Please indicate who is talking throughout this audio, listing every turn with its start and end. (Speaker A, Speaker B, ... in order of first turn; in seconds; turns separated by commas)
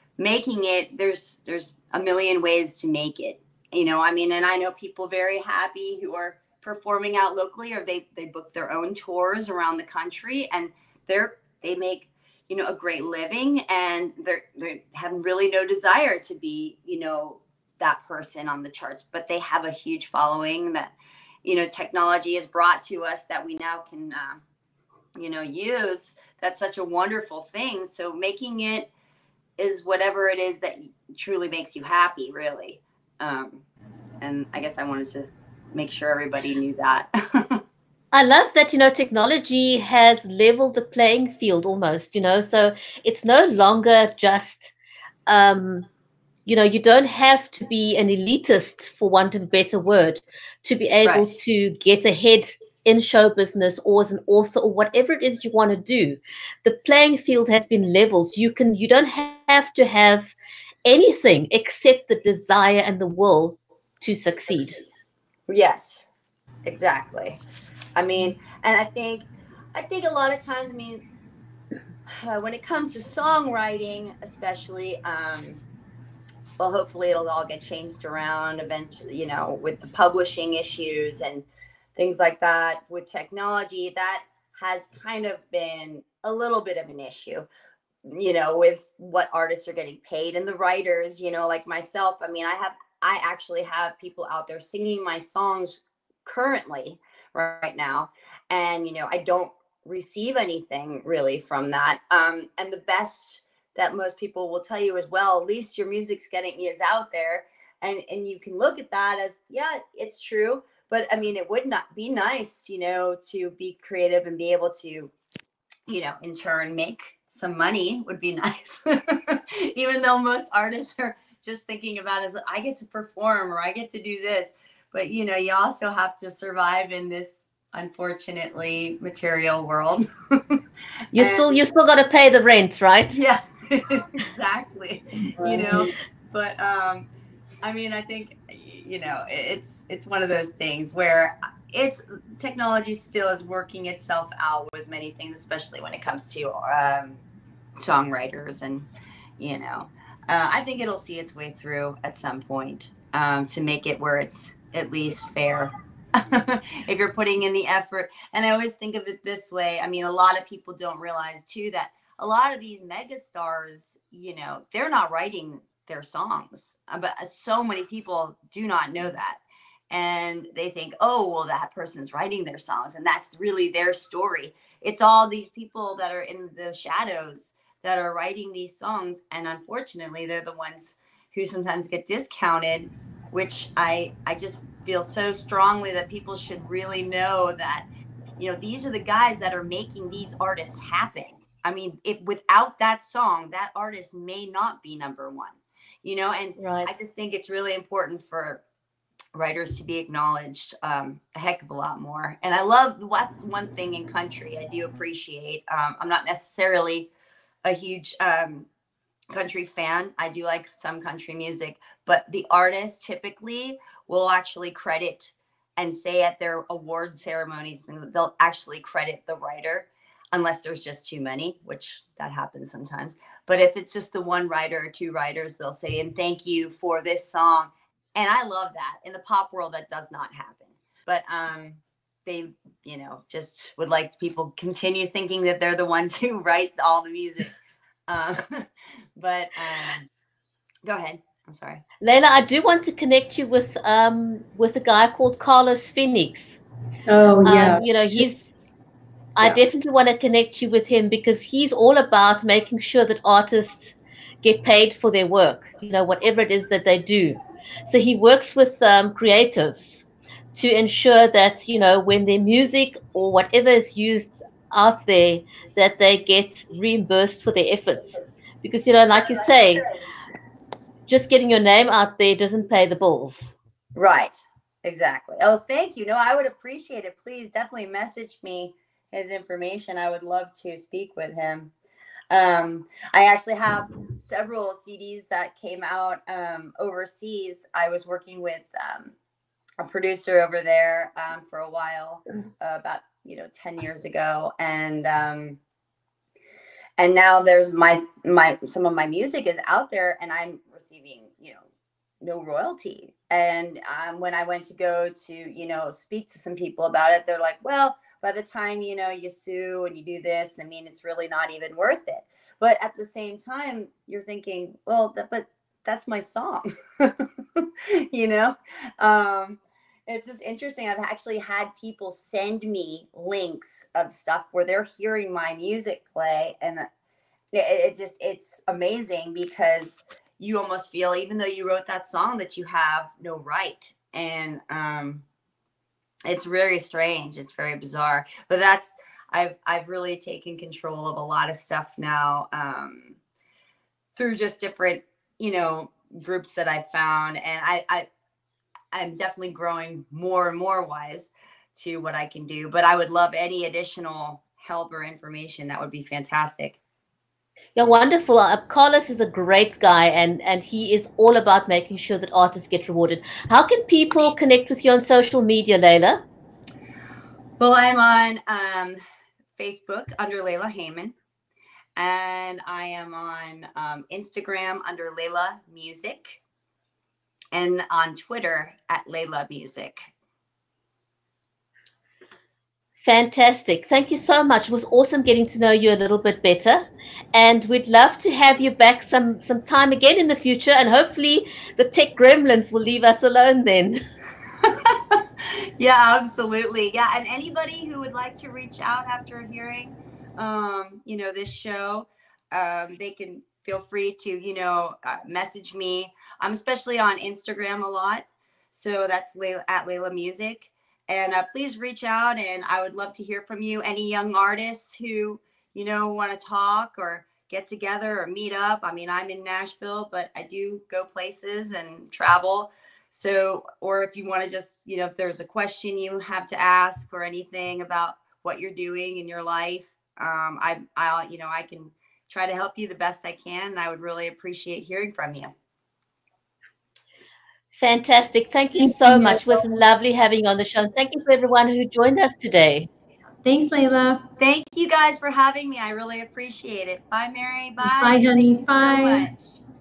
Speaker A: 0.2-20.9, Speaker A: 21.4-24.4, Speaker A: 25.1-28.9, Speaker A: 29.6-33.6, Speaker A: 34.2-37.6, Speaker B: 38.1-44.7, Speaker B: 45.3-45.9, Speaker B: 46.5-60.3, Speaker B: 60.8-64.8, Speaker A: 65.5-66.1, Speaker A: 66.6-67.4, Speaker A: 68.0-71.0, Speaker A: 72.1-75.6, Speaker A: 76.6-87.5, Speaker A: 88.0-115.1, Speaker A: 115.9-130.6, Speaker A: 131.1-131.6, Speaker B: 131.1-133.1, Speaker A: 133.1-137.1, Speaker C: 135.4-135.9, Speaker A: 137.6-147.2, Speaker A: 147.8-148.8, Speaker A: 149.4-187.8, Speaker A: 188.4-198.6, Speaker B: 196.6-196.9, Speaker A: 199.3-207.1, Speaker A: 207.6-208.7, Speaker A: 209.3-237.5, Speaker A: 238.1-240.1, Speaker A: 240.8-241.8, Speaker B: 242.0-246.6, Speaker C: 247.1-248.2, Speaker B: 247.4-248.5, Speaker B: 249.3-269.8, Speaker A: 269.1-270.0, Speaker B: 271.1-273.5, Speaker A: 273.9-281.7, Speaker A: 282.3-289.1, Speaker A: 289.8-295.6, Speaker A: 297.0-301.6, Speaker A: 302.2-326.9, Speaker A: 327.5-335.2, Speaker A: 336.2-343.2, Speaker A: 344.1-348.1, Speaker A: 348.9-356.8, Speaker B: 357.8-366.2, Speaker A: 367.6-369.0, Speaker A: 369.6-371.1, Speaker A: 371.9-376.4, Speaker A: 377.5-380.1, Speaker B: 383.0-394.0, Speaker A: 394.6-435.5, Speaker B: 437.7-442.9, Speaker C: 438.8-439.8, Speaker C: 443.4-444.2, Speaker A: 444.4-449.6, Speaker C: 447.8-449.3